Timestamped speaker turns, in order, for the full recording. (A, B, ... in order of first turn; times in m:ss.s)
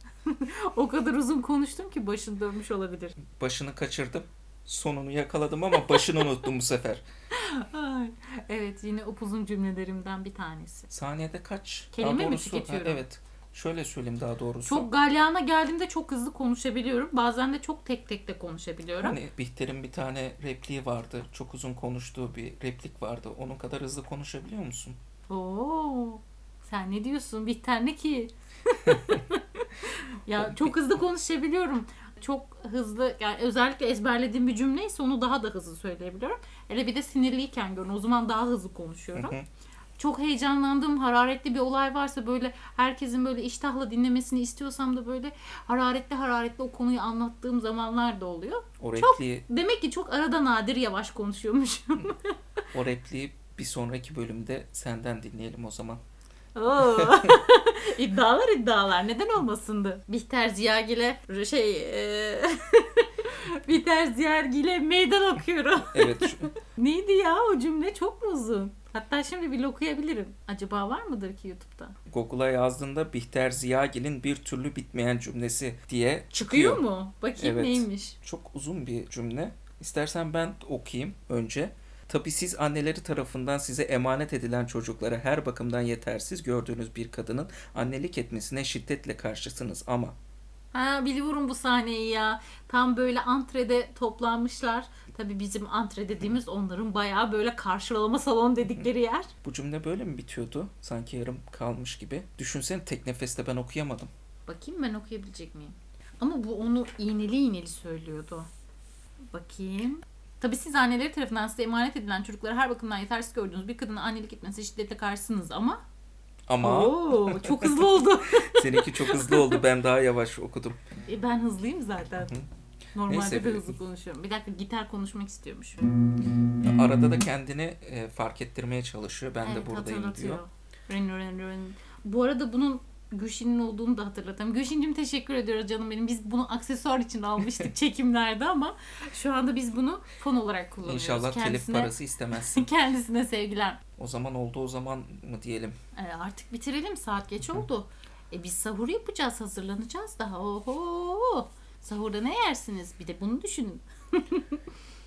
0:00.2-0:03.2 A
0:03.3-0:07.0 B
0:05.7-0:06.1 A
0:07.3-0:10.9 A
0:10.9-0:14.9 B
0:11.9-0:13.0 A
0:14.6-0:19.2 A
0:19.0-0:25.0 B
0:25.3-0:39.4 A
0:39.1-0:39.4 B
0:40.0-0:52.3 A
0:48.8-0:49.4 B
0:52.7-0:56.0 B
0:56.6-1:11.9 A
0:56.8-0:57.2 B
1:05.9-1:06.5 B
1:12.1-1:16.8 B
1:16.3-1:18.2 A
1:17.4-1:30.1 B
1:30.7-1:39.3 A
1:39.4-1:44.1 B
1:44.5-1:48.5 A
1:49.3-1:55.8 A
1:56.5-2:00.8 B
1:56.6-1:59.6 A
2:01.1-2:02.3 A
2:02.9-2:05.8 A
2:03.1-2:03.7 B
2:06.6-2:10.4 B
2:09.4-2:23.8 A
2:20.8-2:22.7 B
2:24.0-2:25.7 B
2:25.9-2:34.6 A